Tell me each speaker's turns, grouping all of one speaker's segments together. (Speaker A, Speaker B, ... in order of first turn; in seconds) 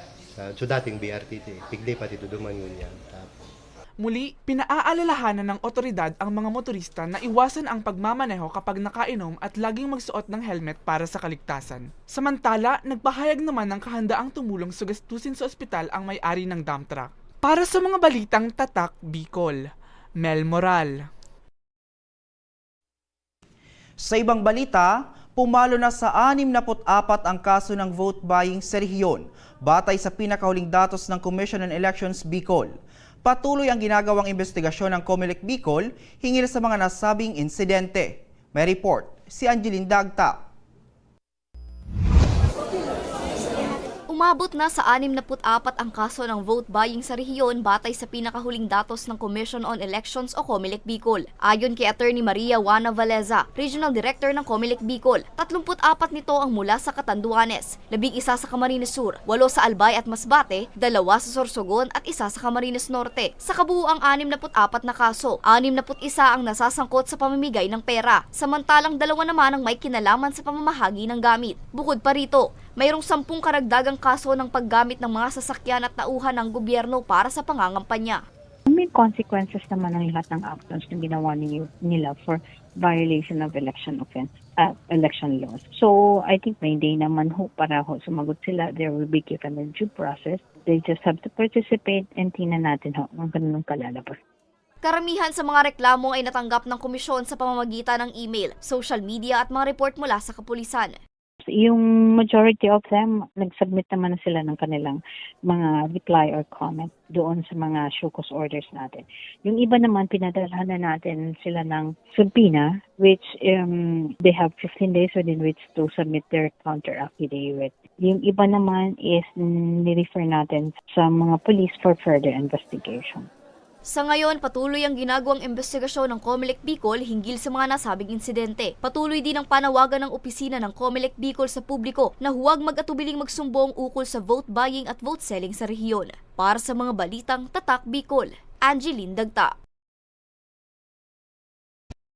Speaker A: 0.3-3.5
Speaker B: 4.0-19.6, 20.2-20.9
Speaker C: 24.0-40.4
Speaker D: 44.1-78.2, 94.8-101.0, 123.9-139.5
Speaker E: 78.7-94.2, 101.4-123.3